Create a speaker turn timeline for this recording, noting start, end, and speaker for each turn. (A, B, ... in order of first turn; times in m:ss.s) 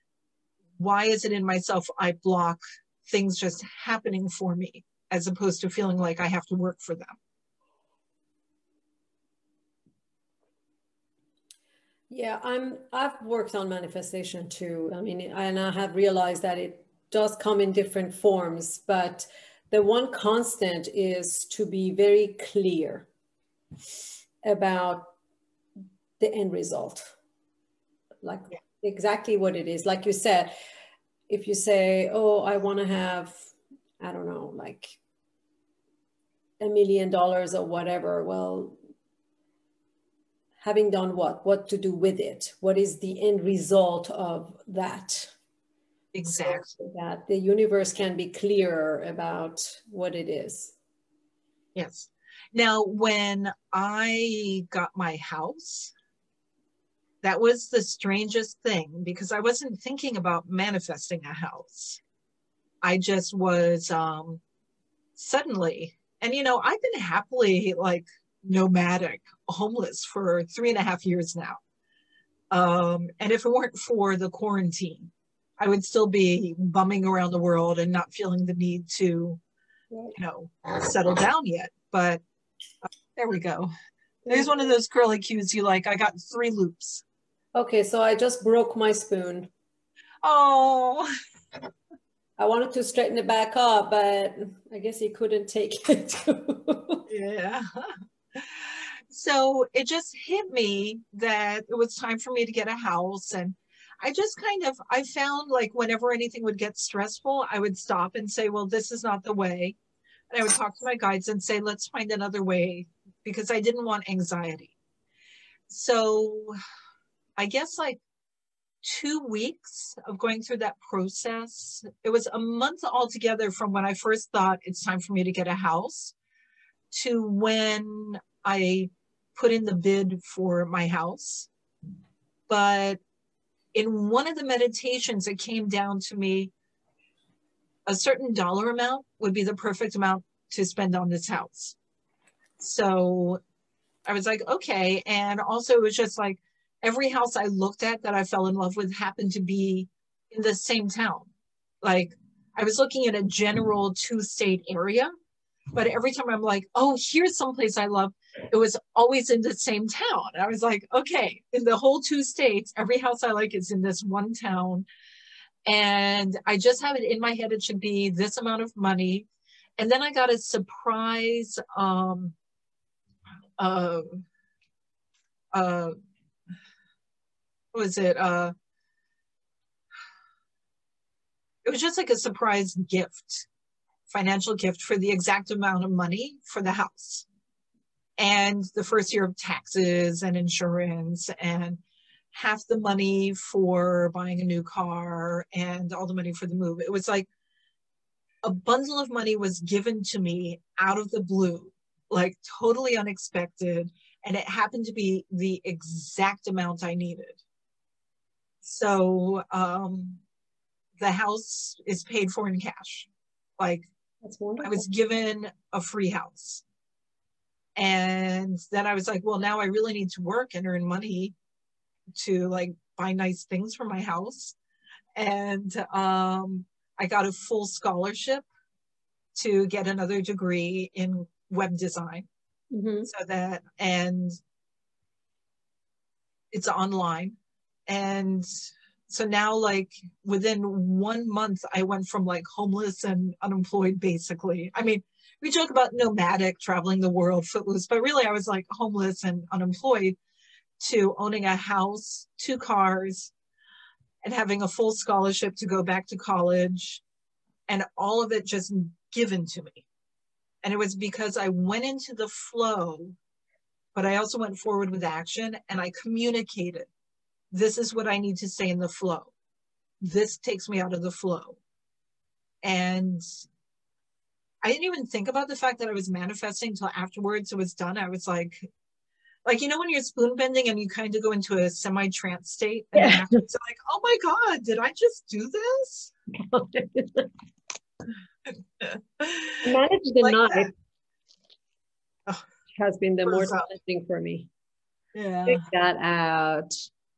0:00.8-0:07.2 A
0:12.1-0:23.1 B
0:24.4-0:25.1 B
0:26.2-0:27.2 B
0:28.2-0:30.5 B
0:31.3-0:35.0 B
0:36.6-0:38.8 B
0:40.6-0:45.3 B
0:46.1-0:46.7 A
0:46.3-0:50.8 B
0:51.8-0:55.9 A
0:57.2-1:02.0 A
1:02.8-1:04.4 A
1:05.2-1:11.6 A
1:12.5-1:19.4 A
1:20.2-1:22.2 A
1:23.2-1:23.7 A
1:24.3-1:24.5 B
1:24.3-1:27.0 A
1:27.6-1:29.5 B
1:30.2-1:31.1 A
1:32.4-1:37.1 B
1:37.1-1:49.8 A
1:50.3-1:54.7 A
1:55.7-1:56.6 A
1:57.4-1:58.0 A
1:58.8-2:06.2 A
2:06.9-2:11.5 A
2:12.5-2:13.0 A
2:13.7-2:16.5 A
2:17.9-2:21.8 A
2:22.6-2:23.4 A
2:24.1-2:31.3 A
2:31.8-2:35.1 A
2:35.7-2:44.9 A
2:45.7-2:49.3 A
2:49.8-2:52.4 A
2:53.6-2:54.2 A
2:55.5-2:55.9 A
2:57.7-2:58.5 A
3:01.6-3:03.5 A
3:04.1-3:07.3 A
3:08.2-3:11.8 A
3:12.3-3:17.3 A
3:18.4-3:27.4 A
3:28.6-3:30.2 A
3:31.0-3:33.9 A
3:34.2-3:34.8 B
3:34.6-3:36.6 A
3:37.8-3:41.4 A
3:42.2-3:44.6 A
3:45.2-3:48.5 A
3:49.4-3:52.3 A
3:52.7-3:53.1 B
3:53.1-3:54.4 A
3:56.5-3:57.4 A
3:57.9-3:58.5 A
3:59.1-4:10.2 A
4:10.8-4:13.3 A
4:14.2-4:17.0 A
4:17.7-4:19.9 A
4:20.6-4:23.2 A
4:24.0-4:26.9 A
4:27.5-4:29.3 A
4:30.0-4:31.6 A
4:32.6-4:33.2 A
4:34.6-4:38.7 A
4:39.5-4:46.1 A
4:42.9-4:43.5 B
4:46.3-4:47.3 B
4:48.8-4:49.7 A
4:49.6-4:50.7 B
4:50.2-4:50.7 A
4:52.7-4:54.5 B
4:53.2-4:53.7 A
4:55.2-4:55.6 A
4:55.5-4:56.7 B